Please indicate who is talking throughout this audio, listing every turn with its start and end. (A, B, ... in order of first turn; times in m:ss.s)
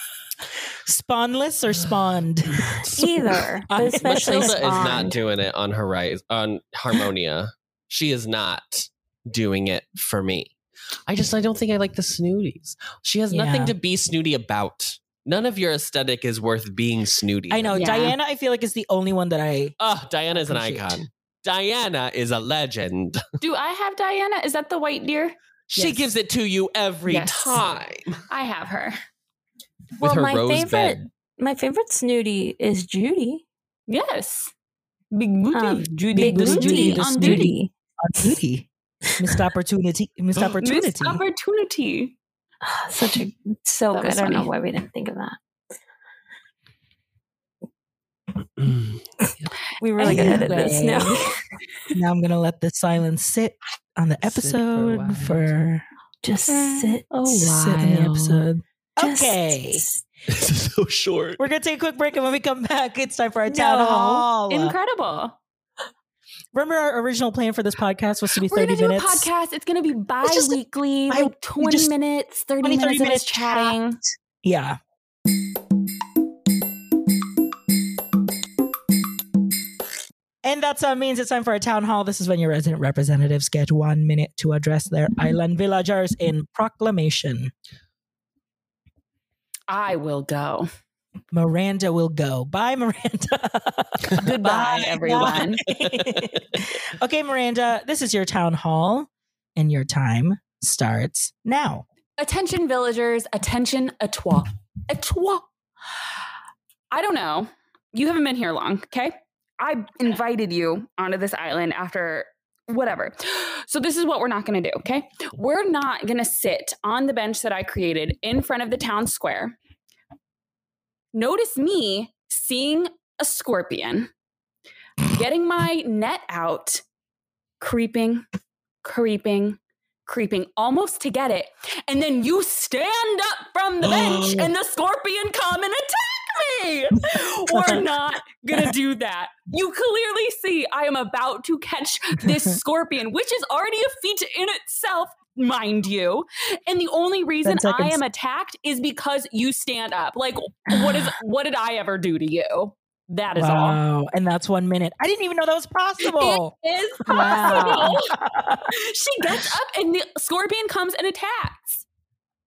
0:00.9-0:04.9 A
0:02.6-0:03.0 B
0:02.9-0:05.2 C
0:04.0-0:10.6 B
0:11.1-0:17.9 B
0:13.3-0:13.8 A
0:17.5-0:19.8 A
0:17.7-0:18.1 D
0:19.8-0:23.2 B
0:20.3-0:21.0 A
0:23.4-0:26.1 D
0:25.7-0:28.2 B
0:27.1-0:27.6 D
0:28.3-0:29.0 D
0:30.0-0:33.4 C
0:30.0-0:31.1 B
0:33.9-0:34.5 D
0:35.1-0:37.5 D
0:35.5-0:37.7 C
0:36.1-0:41.2 A
0:40.4-0:42.2 D
0:42.6-0:45.4 C
0:43.9-0:44.5 D
0:48.6-0:49.5 B
0:49.8-0:51.4 C
0:50.0-0:51.3 D
0:50.0-0:51.1 A
0:51.9-0:55.8 A
0:54.2-0:55.5 B
0:56.2-0:57.4 C
0:56.5-0:58.5 D
0:57.3-0:59.8 A
0:59.0-1:00.0 C
1:00.3-1:01.4 B
1:01.4-1:04.8 A
1:03.5-1:05.4 D
1:03.6-1:04.0 C
1:06.5-1:09.3 A
1:08.4-1:14.0 D
1:10.2-1:10.6 A
1:11.1-1:11.9 A
1:12.6-1:13.8 A
1:14.4-1:14.8 A
1:20.4-1:27.5 A
1:29.7-1:30.7 D
1:31.3-1:41.8 A
1:34.2-1:35.6 D
1:35.7-1:36.3 B
1:42.2-1:45.5 D
1:46.9-1:59.6 D
2:01.1-2:04.1 D
2:05.0-2:06.8 D
2:07.6-2:08.2 D
2:08.8-2:33.8 D
2:17.5-2:17.8 A
2:27.4-2:28.0 A
2:30.7-2:31.0 A
2:33.4-2:36.5 A
2:36.0-2:41.8 D
2:37.1-2:38.7 A
2:37.1-2:38.0 C